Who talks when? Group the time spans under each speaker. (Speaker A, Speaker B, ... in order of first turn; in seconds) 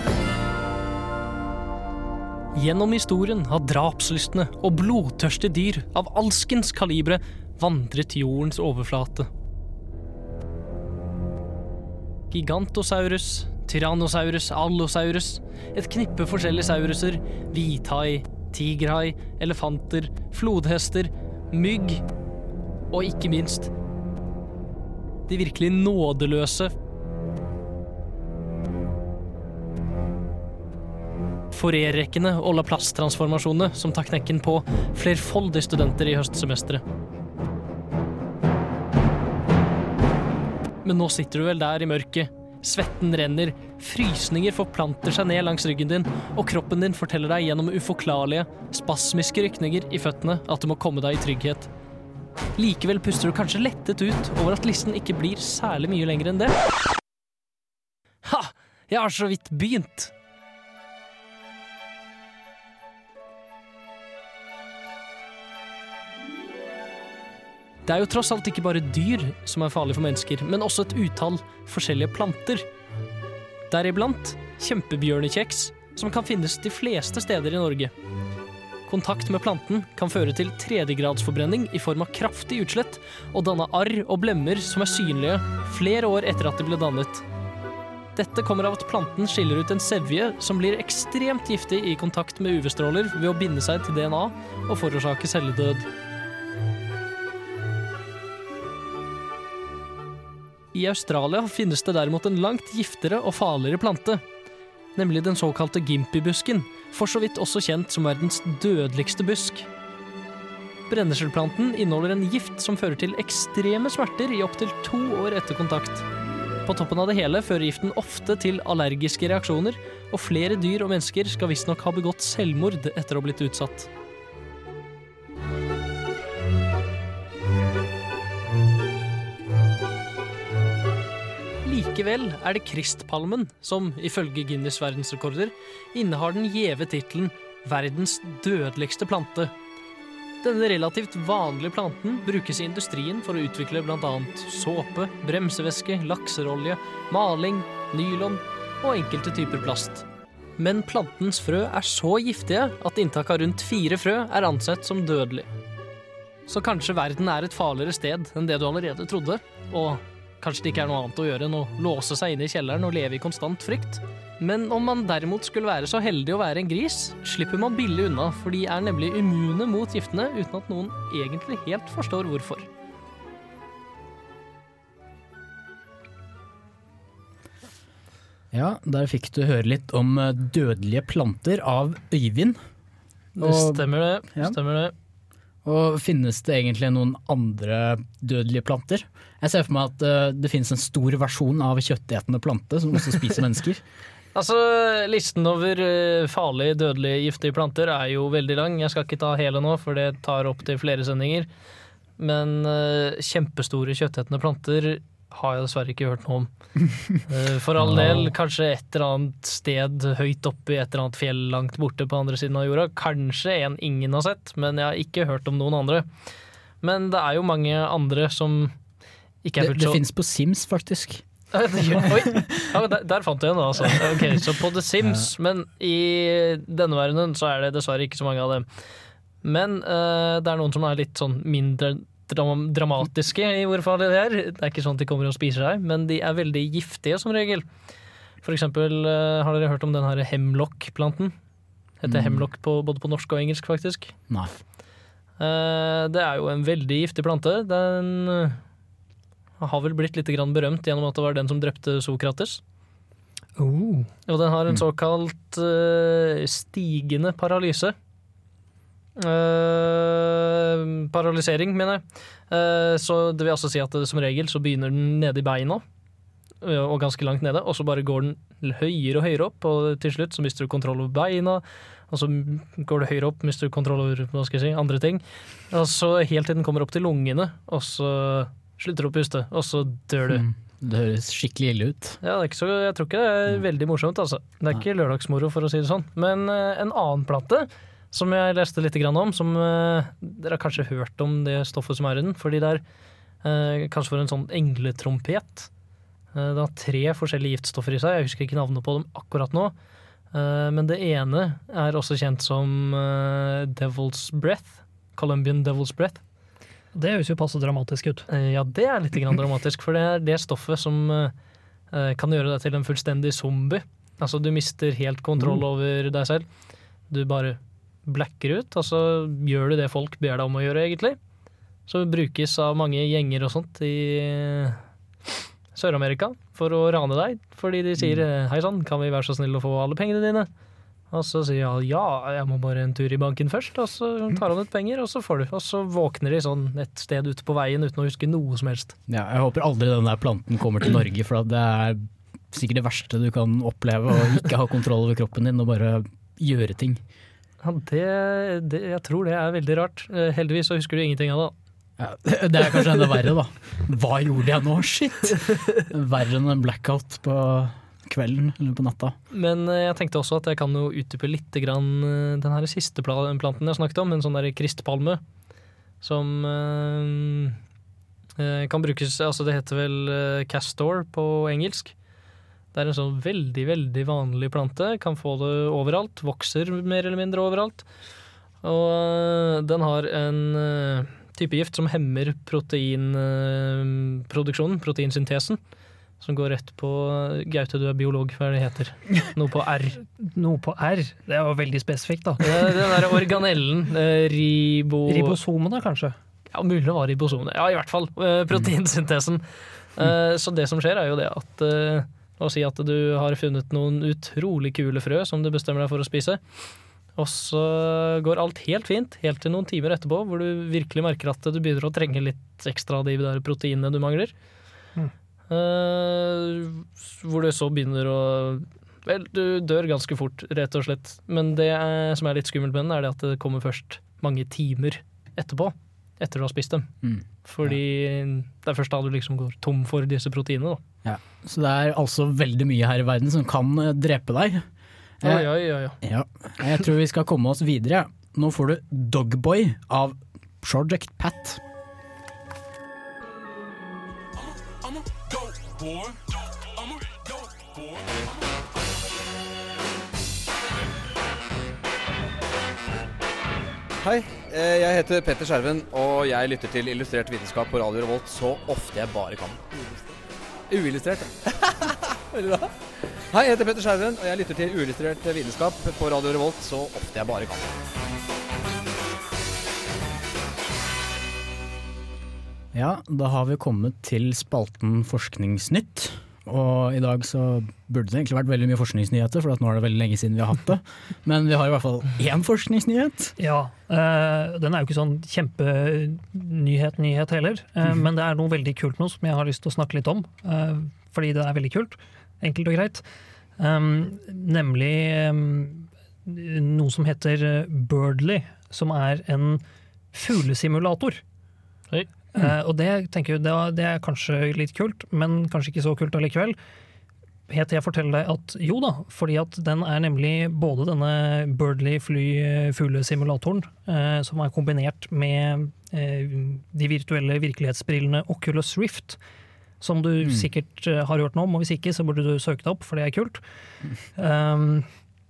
Speaker A: 2.5-9.3, 12.3-22.0, 22.9-23.7, 25.3-26.7, 31.5-36.8, 40.8-51.7, 52.6-56.5, 58.2-60.1, 67.9-72.7, 73.7-77.9, 78.9-87.2, 88.2-95.9, 100.7-104.2, 105.0-109.7, 110.9-116.0, 116.7-123.9, 131.7-139.5, 140.4-150.1, 150.6-155.5, 156.5-172.7, 183.4-184.9, 194.3-201.5, 202.2-206.5, 207.3-216.1, 216.8-218.7, 219.4-220.0, 221.5-228.7, 229.4-237.7, 238.4-241.3, 242.0-244.1, 245.4-248.6, 249.6-252.6, 254.3-257.9, 259.2-265.8, 266.6-280.4, 282.2-292.8, 293.4-295.7, 296.3-299.7, 300.3-306.2, 308.3-311.3, 311.9-316.4, 317.1-321.2, 321.9-324.8, 325.7-330.5, 331.1-338.9, 347.6-351.5, 359.3-365.2, 366.0-367.6, 368.4-371.9, 372.7-377.9, 378.6-385.6, 386.2-390.0, 392.4-395.4, 396.5-399.4, 399.9-406.6, 407.2-414.3, 415.5-426.9, 427.4-430.8, 435.2-436.0
Speaker B: 178.5-182.6, 183.4-184.6, 185.7-193.8, 207.8-208.3, 219.6-221.2, 221.8-222.6, 223.9-224.4, 225.0-225.3, 242.1-242.5, 280.3-282.2, 339.1-347.0, 352.0-359.2, 427.0-427.8, 431.0-434.6, 435.2-435.5, 436.0-441.6, 472.7-483.3
Speaker C: 253.6-254.1, 306.9-308.3, 390.2-392.8, 395.1-396.1, 483.4-493.0, 493.6-499.6, 500.1-501.2, 502.3-506.6, 507.5-519.2, 519.8-523.4, 524.2-524.9
Speaker D: 454.0-460.1, 460.7-462.7, 463.3-467.7